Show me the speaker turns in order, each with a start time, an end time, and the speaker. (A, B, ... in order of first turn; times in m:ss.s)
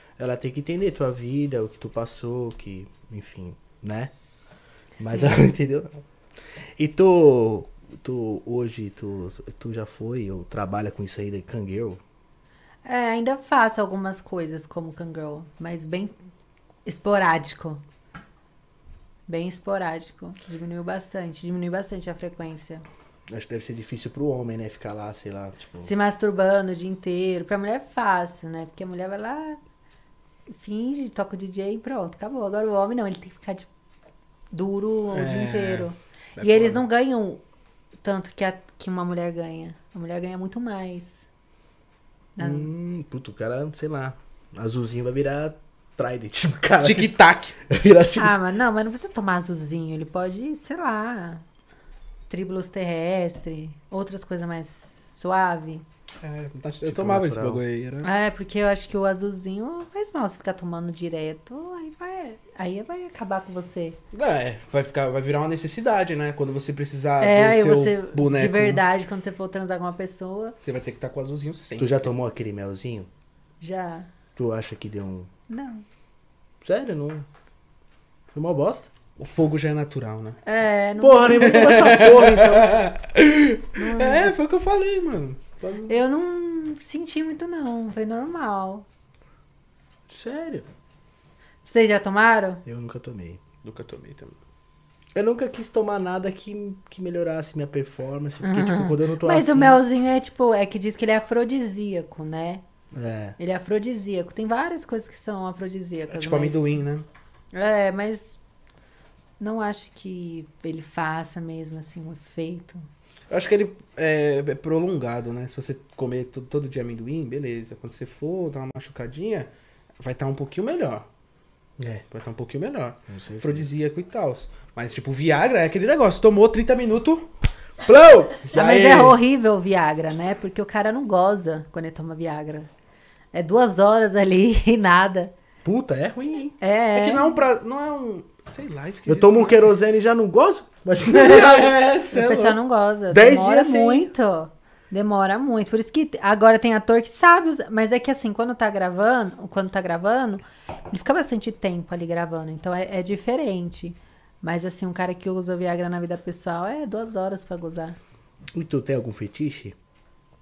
0:00.2-0:04.1 A
0:05.0-0:05.5 B
0:05.0-0:06.0 A
0:06.8-0:12.0 A
0:12.8-0:16.1 B
0:16.9-0:17.8 B
0:19.3-0:22.8 B
0:23.3-0:25.9 A
0:25.8-0:29.6 B
0:30.5-0:33.7 B
0:34.5-0:37.4 B
0:35.1-0:36.8 C
0:38.0-0:41.3 B
0:42.4-0:42.7 B
0:42.4-0:48.3 A
0:46.8-0:47.6 C
0:48.2-0:51.4 B
0:52.3-0:55.8 B
0:56.2-0:58.1 C
0:56.8-0:57.6 A
0:58.0-1:04.0 B
1:04.1-1:08.8 C
1:07.2-1:10.6 B
1:10.6-1:12.1 C
1:11.8-1:13.1 A
1:13.6-1:14.1 B
1:14.4-1:15.3 A
1:15.5-1:15.8 B
1:16.6-1:17.3 A
1:18.3-1:18.9 A
1:19.2-1:20.4 C
1:20.4-1:21.8 B
1:21.0-1:22.8 A
1:21.3-1:25.9 C
1:23.8-1:24.4 B
1:25.9-1:28.8 B
1:30.1-1:30.7 A
1:31.6-1:32.6 B
1:32.6-1:33.4 A
1:33.6-1:34.4 C
1:35.2-1:39.8 A
1:38.4-1:42.6 B
1:42.9-1:43.4 A
1:43.4-1:46.8 B
1:46.1-1:47.1 C
1:47.5-1:48.4 B
1:49.4-1:52.8 B
1:53.3-2:01.1 C
2:01.8-2:02.0 A
2:02.1-2:07.3 C
2:03.1-2:03.7 A
2:07.8-2:09.1 A
2:08.5-2:12.7 B
2:08.6-2:09.1 C
2:13.3-2:15.3 B
2:15.6-2:16.5 A
2:16.6-2:17.4 B
2:16.9-2:19.7 C
2:19.1-2:22.0 A
2:21.0-2:22.6 C
2:22.1-2:38.0 B
2:23.1-2:24.1 A
2:38.5-2:39.8 A